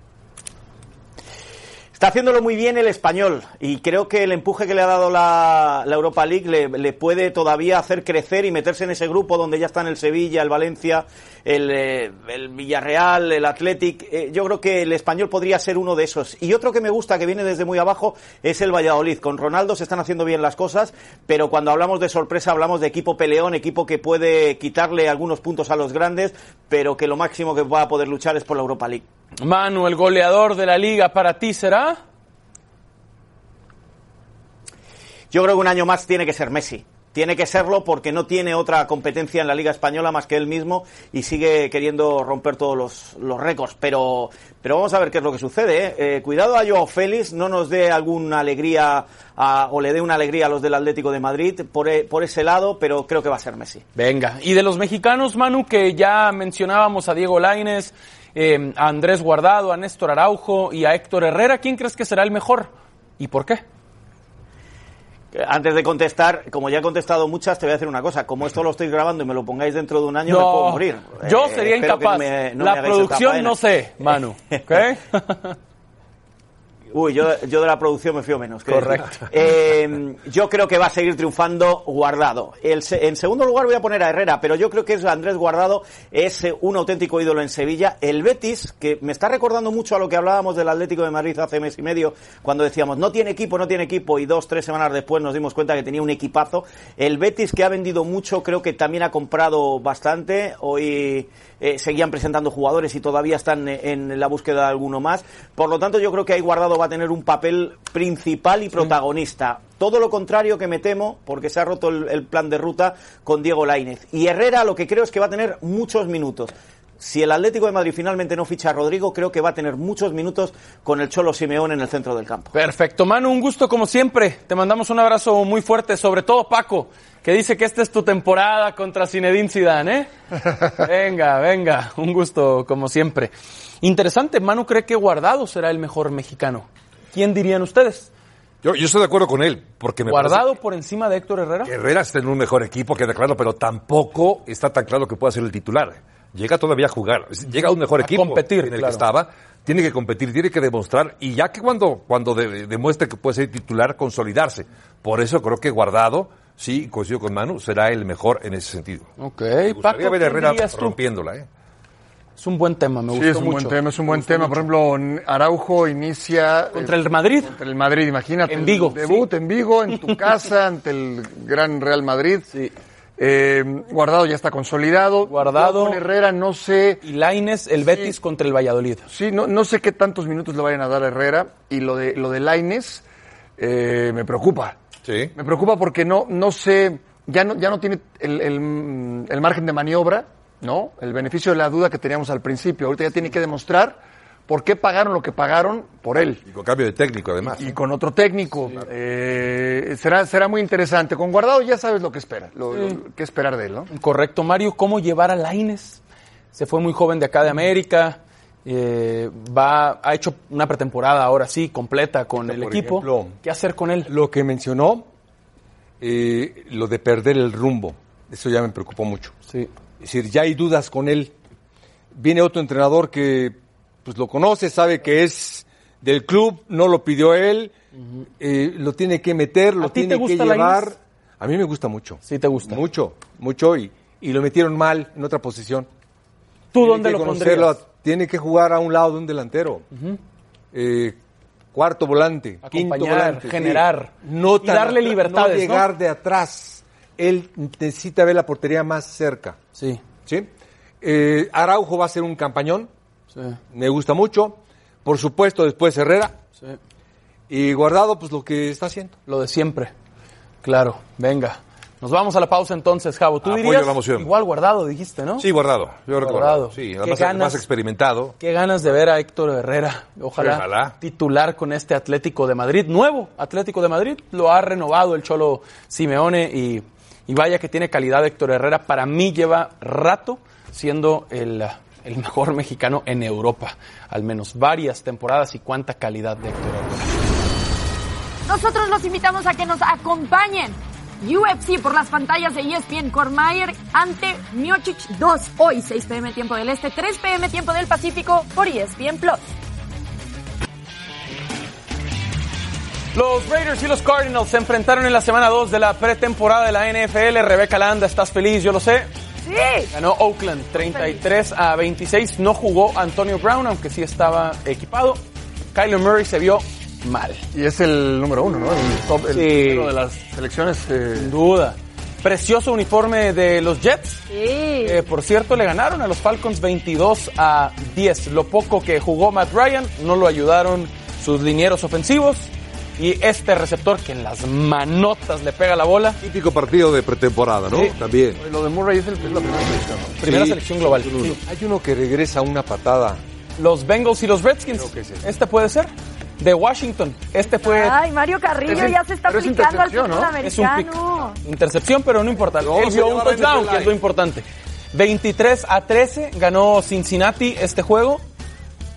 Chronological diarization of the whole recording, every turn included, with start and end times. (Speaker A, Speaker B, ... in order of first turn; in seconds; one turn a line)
Speaker A: 1.9-29.0
Speaker B: 29.4-32.0
Speaker A: 35.3-53.8
Speaker B: 53.9-63.6
Speaker A: 65.3-73.6
Speaker B: 70.2-75.5
Speaker A: 76.9-122.5
Speaker B: 78.7-79.2
Speaker B: 122.5-130.1
Speaker B: 130.7-138.1
Speaker C: 138.6-140.5
Speaker B: 140.1-141.7
Speaker C: 141.7-159.1
Speaker B: 148.0-149.0
Speaker B: 159.2-161.0
Speaker C: 159.7-161.4
Speaker B: 162.4-164.7
Speaker D: 163.1-172.5
Speaker B: 166.7-167.5
Speaker B: 168.5-169.3
Speaker D: 173.2-177.0
Speaker B: 175.3-176.0
Speaker B: 177.0-179.1
Speaker D: 179.1-183.0
Speaker D: 183.6-184.8
Speaker C: 185.0-185.3
Speaker D: 185.3-196.4
Speaker C: 196.4-197.7
Speaker D: 197.5-203.9
Speaker B: 203.9-206.0
Speaker B: 206.5-214.1
Speaker E: 212.4-213.4
Speaker E: 214.1-215.1
Speaker E: 216.0-219.3
Speaker E: 220.0-221.3
Speaker E: 222.1-227.7
Speaker E: 228.4-235.9
Speaker B: 229.8-230.9
Speaker B: 232.2-232.8
Speaker B: 236.7-237.8
Speaker E: 236.8-239.9
Speaker B: 239.9-240.2
Speaker E: 240.7-241.2
Speaker E: 241.7-249.6
Speaker B: 242.6-245.9
Speaker B: 249.8-250.0
Speaker E: 251.0-252.9
Speaker B: 253.3-253.6
Speaker E: 253.7-256.4
Speaker E: 257.5-259.2
Speaker B: 259.3-259.9
Speaker B: 260.6-265.5
Speaker C: 263.4-264.3
Speaker C: 265.4-268.4
Speaker B: 266.2-267.6
Speaker B: 268.4-287.1
Speaker C: 270.4-270.9
Speaker F: 288.5-299.4
Speaker B: 303.1-309.1
Speaker F: 309.4-309.9
Speaker B: 309.9-317.4
Speaker F: 310.8-311.2
Speaker D: 317.5-321.3
Speaker B: 319.3-319.9
Speaker B: 321.1-324.2
Speaker F: 324.3-324.9
Speaker B: 324.8-336.2
Speaker C: 336.2-338.4
Speaker D: 338.4-340.2
Speaker B: 340.2-341.4
Speaker C: 340.2-340.5
Speaker E: 341.4-343.2
Speaker B: 343.6-348.0
Speaker E: 344.7-345.2
Speaker F: 347.6-351.4
Speaker D: 348.6-350.4
Speaker B: 350.4-358.2
Speaker C: 352.6-353.9
Speaker E: 353.0-353.6